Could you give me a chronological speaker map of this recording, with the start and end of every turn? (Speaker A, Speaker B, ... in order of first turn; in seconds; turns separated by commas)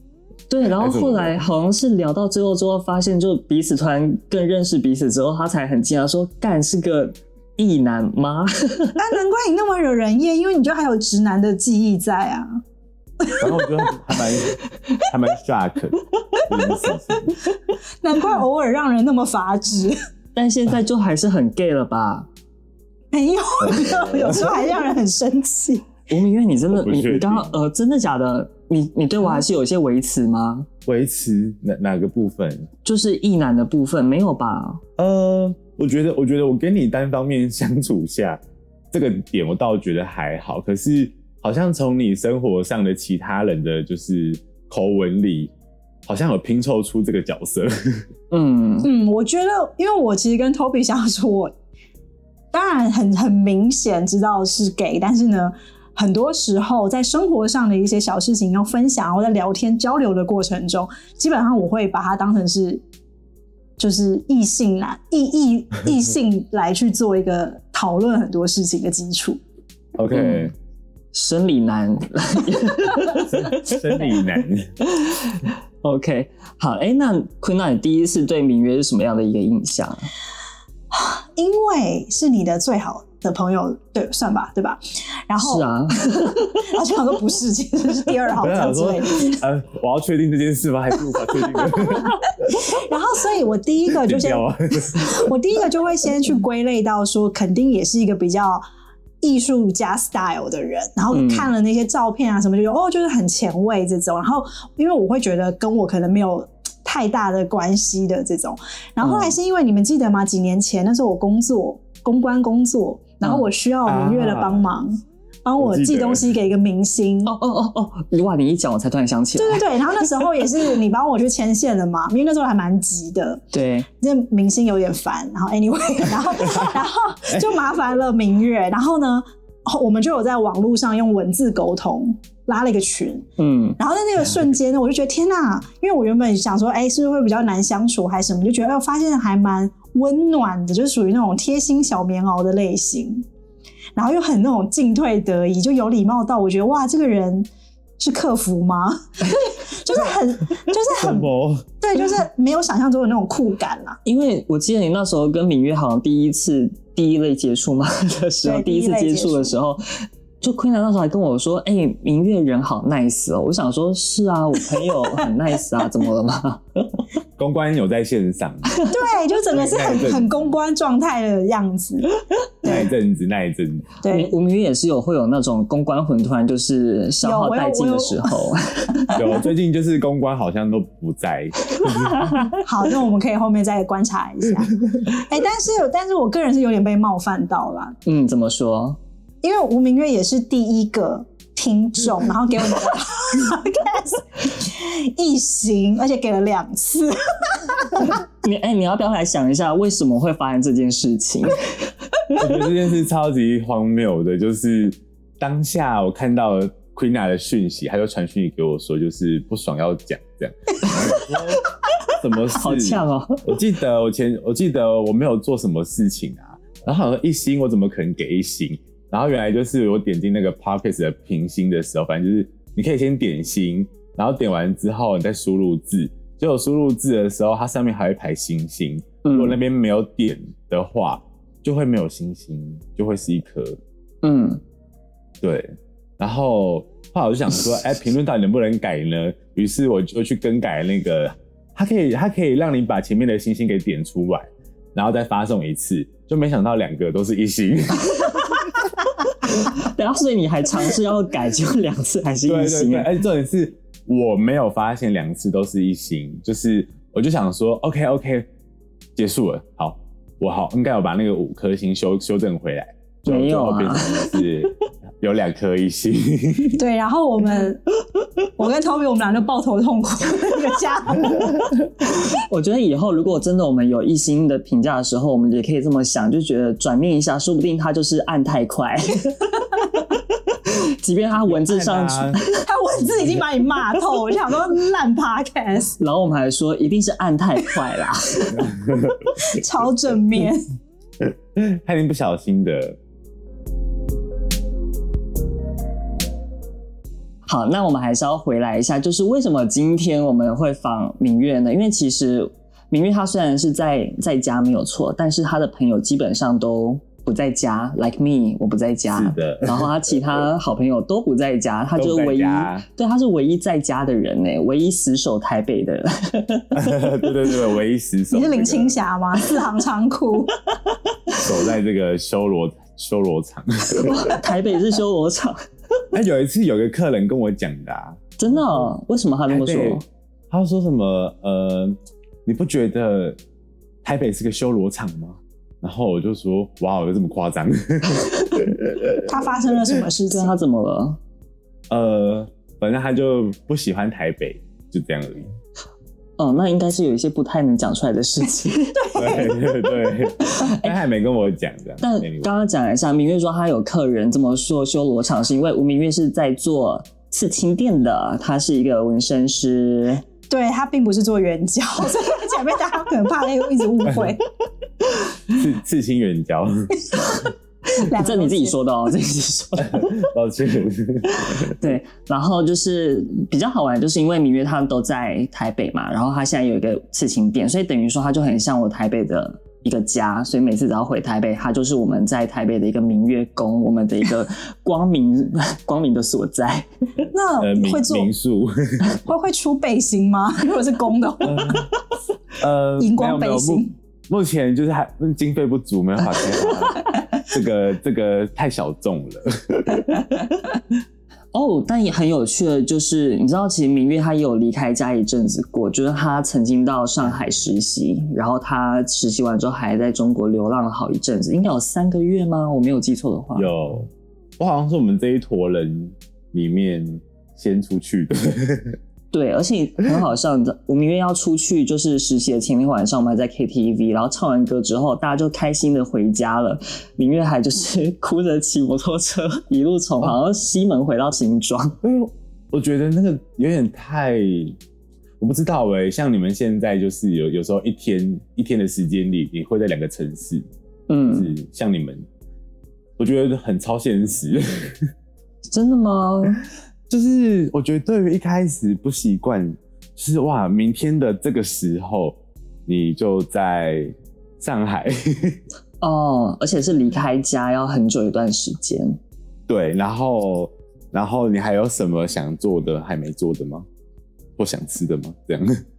Speaker A: 0.5-9.0, Speaker B: 0.8-1.4, Speaker C: 9.0-12.6, Speaker C: 13.2-13.5, Speaker B: 13.4-17.4, Speaker C: 18.0-20.0, Speaker A: 20.4-22.3, Speaker C: 23.1-25.9, Speaker B: 23.6-24.5, Speaker A: 26.1-30.7, Speaker B: 26.7-27.6, Speaker B: 30.9-32.7, Speaker A: 32.9-34.8, Speaker B: 35.0-38.4, Speaker B: 38.9-45.5, Speaker B: 46.1-48.1, Speaker A: 48.3-48.9, Speaker C: 48.8-51.5, Speaker C: 52.5-62.8, Speaker C: 63.8-69.4, Speaker B: 70.0-70.5, Speaker A: 70.1-70.5, Speaker A: 71.1-74.1, Speaker B: 73.2-74.7, Speaker A: 74.8-80.1, Speaker C: 80.9-85.7, Speaker A: 85.4-86.7, Speaker C: 86.3-89.4, Speaker B: 88.4-92.7, Speaker C: 91.7-98.6, Speaker B: 93.9-95.3, Speaker C: 99.2-117.3, Speaker A: 101.1-101.5, Speaker A: 109.0-109.4, Speaker B: 113.9-114.7, Speaker B: 115.6-116.4, Speaker A: 117.3-120.1, Speaker C: 119.4-133.3, Speaker A: 123.5-123.9, Speaker B: 126.5-126.7, Speaker B: 127.3-127.6, Speaker A: 133.4-133.8, Speaker C: 133.8-143.3, Speaker C: 144.0-151.3, Speaker B: 151.0-151.7, Speaker C: 151.8-154.0, Speaker A: 154.1-167.0, Speaker C: 158.4-159.6, Speaker B: 167.4-168.8, Speaker C: 168.9-172.1, Speaker B: 169.5-170.6, Speaker C: 172.6-172.9, Speaker B: 172.6-173.9, Speaker C: 174.0-174.3, Speaker A: 174.1-179.2, Speaker C: 177.2-178.4, Speaker B: 179.1-182.2, Speaker A: 181.8-182.5, Speaker C: 182.5-188.0, Speaker A: 188.1-189.0, Speaker C: 189.4-198.2, Speaker A: 198.0-202.4, Speaker B: 202.4-233.8, Speaker A: 212.6-213.5, Speaker A: 229.2-229.6, Speaker A: 234.2-234.6, Speaker B: 235.4-248.7, Speaker A: 249.4-253.1, Speaker B: 252.5-258.5, Speaker B: 259.2-266.8, Speaker A: 263.3-264.4, Speaker C: 266.7-267.9, Speaker C: 268.6-271.6, Speaker A: 272.0-280.1, Speaker A: 280.6-282.6, Speaker B: 281.4-282.4, Speaker C: 282.7-285.9, Speaker A: 286.0-288.7, Speaker B: 288.5-289.4, Speaker C: 289.4-290.7, Speaker B: 291.2-293.0, Speaker A: 297.4-317.3, Speaker B: 309.1-310.4, Speaker B: 312.0-312.9, Speaker B: 316.7-319.0, Speaker C: 318.3-320.6, Speaker A: 320.9-321.4, Speaker B: 321.4-324.4, Speaker A: 323.9-325.6, Speaker B: 326.1-328.9, Speaker A: 328.4-330.0, Speaker B: 329.5-333.4, Speaker B: 334.0-340.0, Speaker C: 339.2-340.6, Speaker A: 340.3-341.2, Speaker B: 341.9-345.5, Speaker A: 346.4-349.2, Speaker C: 348.9-349.7, Speaker B: 349.1-352.5, Speaker A: 350.4-350.9, Speaker A: 352.0-360.2, Speaker C: 360.5-364.4, Speaker B: 365.5-367.0, Speaker A: 367.9-370.3, Speaker C: 368.0-368.8, Speaker B: 369.8-371.8, Speaker A: 371.5-386.9, Speaker C: 387.3-388.3, Speaker B: 387.6-389.0, Speaker C: 389.2-391.8, Speaker B: 391.4-391.9, Speaker B: 392.6-400.2, Speaker C: 393.0-393.9, Speaker A: 401.5-413.7, Speaker B: 413.6-419.0, Speaker A: 419.3-432.0, Speaker B: 432.0-434.8, Speaker B: 435.4-440.7, Speaker A: 441.1-441.5, Speaker B: 441.3-442.2, Speaker B: 443.2-445.0, Speaker A: 445.7-446.6, Speaker B: 447.1-455.6, Speaker A: 456.0-459.2, Speaker B: 459.7-463.9, Speaker B: 464.6-465.8